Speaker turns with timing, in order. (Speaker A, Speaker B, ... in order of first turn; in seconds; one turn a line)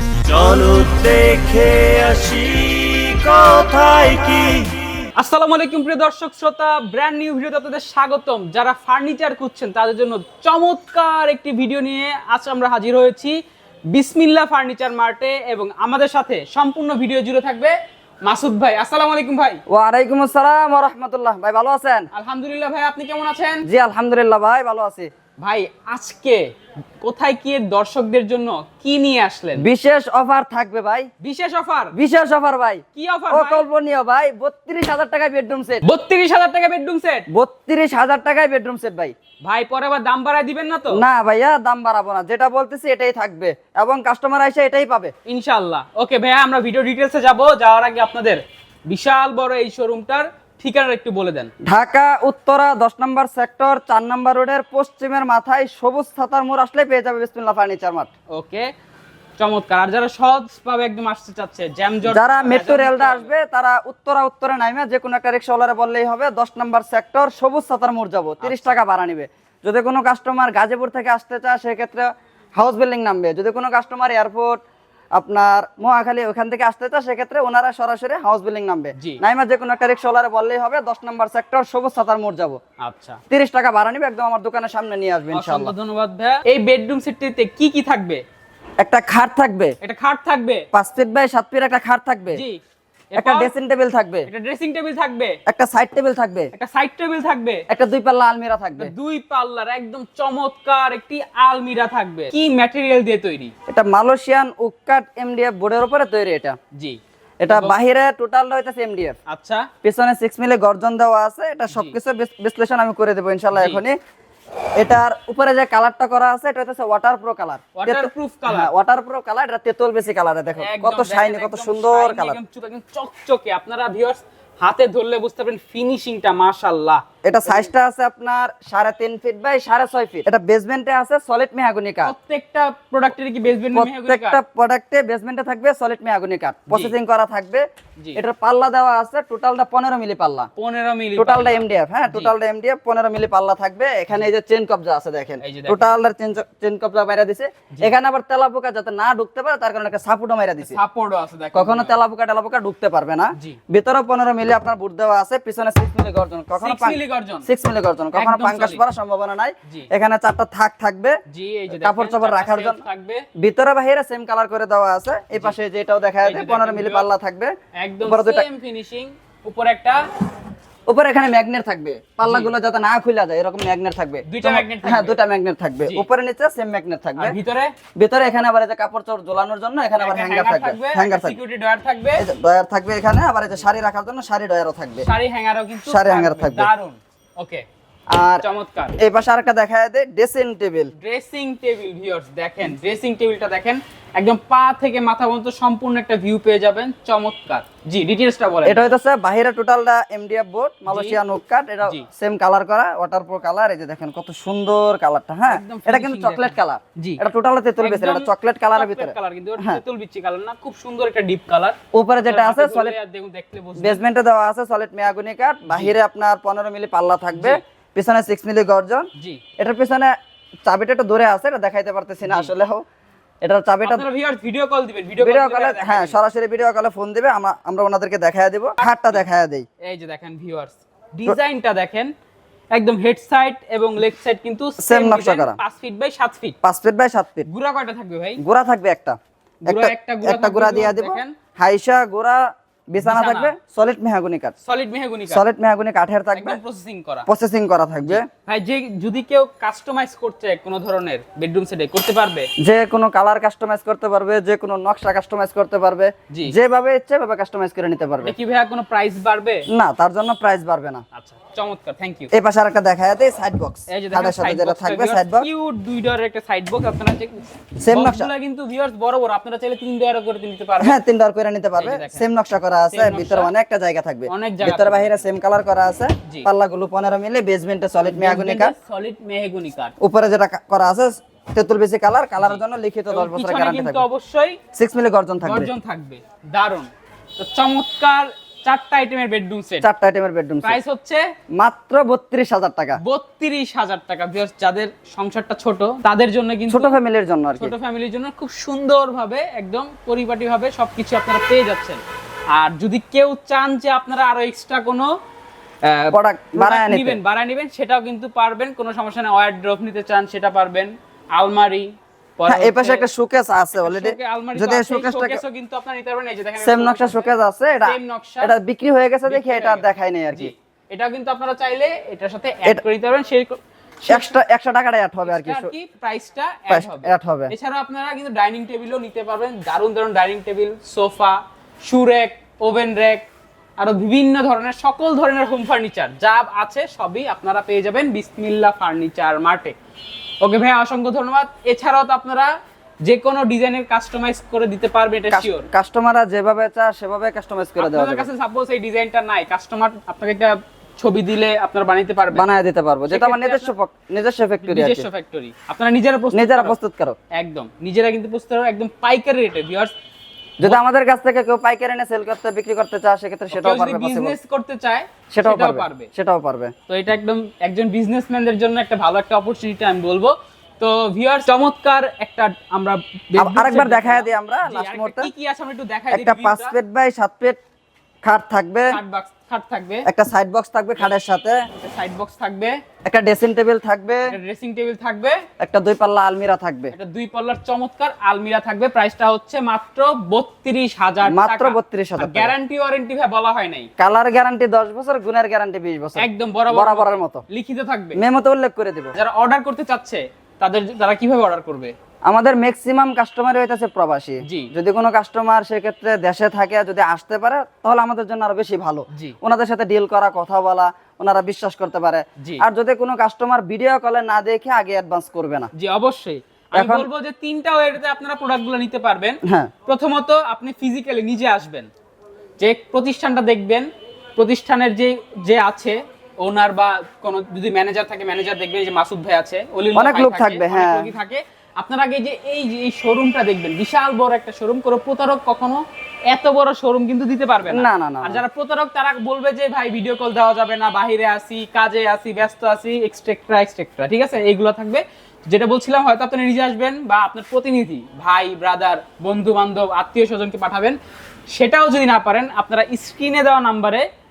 Speaker A: 0.3-4.8
Speaker B: 5.2-13.4
Speaker B: 13.9-19.6
Speaker C: 19.7-22.1
Speaker B: 22.1-23.6
Speaker C: 23.6-25.1
Speaker B: 25.4-26.5
Speaker B: 27.0-29.7
Speaker C: 29.6-31.1
Speaker B: 31.2-31.9
Speaker C: 31.9-35.8
Speaker B: 33.0-33.7
Speaker B: 35.8-37.3
Speaker C: 37.3-39.1
Speaker B: 39.4-41.0
Speaker C: 40.9-45.1
Speaker B: 45.3-51.5
Speaker C: 51.6-58.1
Speaker B: 58.3-58.7
Speaker B: 59.4-63.3
Speaker C: 62.1-74.6
Speaker B: 68.4-68.8
Speaker C: 75.2-82.6
Speaker B: 82.8-83.2
Speaker C: 83.3-85.7
Speaker B: 85.3-88.2
Speaker C: 88.8-89.8
Speaker B: 89.8-90.7
Speaker C: 90.7-92.4
Speaker B: 92.3-92.6
Speaker B: 93.1-93.5
Speaker C: 93.2-94.3
Speaker B: 94.3-95.4
Speaker C: 95.5-96.5
Speaker B: 96.5-97.7
Speaker C: 97.7-98.9
Speaker B: 98.8-103.5
Speaker C: 103.7-106.6
Speaker C: 107.4-109.2
Speaker B: 107.5-107.8
Speaker B: 109.3-109.7
Speaker C: 109.8-114.0
Speaker B: 111.7-112.0
Speaker B: 113.5-113.8
Speaker C: 114.8-122.4
Speaker B: 117.8-118.7
Speaker B: 120.6-127.7
Speaker C: 127.2-132.1
Speaker B: 132.0-134.4
Speaker C: 133.7-140.5
Speaker B: 136.7-137.0
Speaker B: 140.6-142.4
Speaker C: 141.2-150.8
Speaker B: 145.4-145.9
Speaker B: 150.6-151.9
Speaker C: 151.5-161.2
Speaker B: 156.6-157.5
Speaker B: 158.1-158.8
Speaker B: 161.3-163.3
Speaker C: 161.7-162.8
Speaker C: 163.4-168.5
Speaker B: 166.2-167.1
Speaker B: 167.8-170.1
Speaker C: 170.9-177.4
Speaker B: 172.2-172.5
Speaker B: 174.2-175.2
Speaker B: 177.2-177.8
Speaker C: 177.9-181.4
Speaker B: 180.0-182.3
Speaker C: 182.2-185.1
Speaker B: 185.0-187.7
Speaker C: 185.8-186.7
Speaker C: 188.1-188.4
Speaker B: 188.4-189.0
Speaker C: 189.0-190.9
Speaker B: 190.9-198.9
Speaker C: 198.7-209.8
Speaker B: 200.9-201.2
Speaker B: 205.5-207.2
Speaker B: 207.8-214.0
Speaker C: 211.9-213.0
Speaker C: 213.8-219.1
Speaker B: 215.7-216.0
Speaker B: 217.3-217.6
Speaker B: 219.2-219.4
Speaker C: 219.6-220.1
Speaker C: 220.7-222.8
Speaker B: 222.2-222.5
Speaker C: 223.4-224.1
Speaker B: 223.8-226.2
Speaker C: 225.2-229.7
Speaker B: 228.8-229.2
Speaker B: 229.8-232.1
Speaker B: 232.7-236.6
Speaker C: 234.8-235.6
Speaker C: 236.6-237.5
Speaker B: 237.5-238.4
Speaker C: 238.4-242.4
Speaker B: 239.7-241.3
Speaker C: 242.9-244.6
Speaker B: 243.0-243.6
Speaker B: 244.7-245.4
Speaker C: 245.3-246.6
Speaker B: 246.3-247.3
Speaker C: 247.3-248.3
Speaker B: 248.0-252.5
Speaker C: 252.6-258.4
Speaker B: 258.2-259.7
Speaker C: 259.7-261.0
Speaker B: 261.1-262.3
Speaker C: 262.3-265.5
Speaker B: 263.9-271.0
Speaker C: 267.8-268.3
Speaker C: 270.8-278.7
Speaker B: 271.8-272.3
Speaker B: 272.9-273.5
Speaker B: 274.3-275.2
Speaker B: 278.0-279.9
Speaker C: 280.0-284.1
Speaker B: 282.4-284.6
Speaker C: 284.7-285.7
Speaker B: 285.4-289.9
Speaker C: 289.8-290.8
Speaker B: 290.6-291.3
Speaker C: 291.6-293.0
Speaker B: 293.0-297.0
Speaker C: 296.7-297.7
Speaker B: 297.6-302.0
Speaker B: 302.5-305.1
Speaker B: 305.8-313.1
Speaker C: 306.1-307.2
Speaker C: 312.5-315.4
Speaker B: 313.8-318.6
Speaker C: 316.6-320.5
Speaker B: 319.3-324.4
Speaker C: 324.1-325.7
Speaker B: 325.2-333.3
Speaker C: 326.7-327.5
Speaker B: 333.8-339.8
Speaker B: 340.4-342.5
Speaker B: 343.0-345.7
Speaker C: 345.3-348.3
Speaker B: 347.8-352.4
Speaker C: 352.3-355.1
Speaker B: 353.1-353.7
Speaker B: 354.6-356.8
Speaker C: 356.3-357.2
Speaker B: 357.3-359.9
Speaker C: 360.6-364.4
Speaker B: 363.5-366.1
Speaker C: 365.3-366.7
Speaker B: 366.9-376.8
Speaker C: 373.4-375.3
Speaker C: 376.1-377.6
Speaker C: 378.2-379.0
Speaker B: 378.9-380.1
Speaker C: 380.1-381.7
Speaker B: 381.8-382.8
Speaker C: 383.1-384.3
Speaker B: 384.3-385.4
Speaker C: 385.6-386.9
Speaker B: 386.9-393.9
Speaker C: 391.3-392.5
Speaker C: 394.0-397.4
Speaker B: 396.2-398.2
Speaker C: 398.2-399.1
Speaker B: 399.1-401.9
Speaker C: 402.3-415.7
Speaker B: 404.4-404.7
Speaker B: 415.7-421.9
Speaker C: 416.7-417.1
Speaker C: 419.4-419.7
Speaker B: 422.6-451.0
Speaker C: 429.9-431.1
Speaker C: 437.7-438.4
Speaker B: 451.5-454.1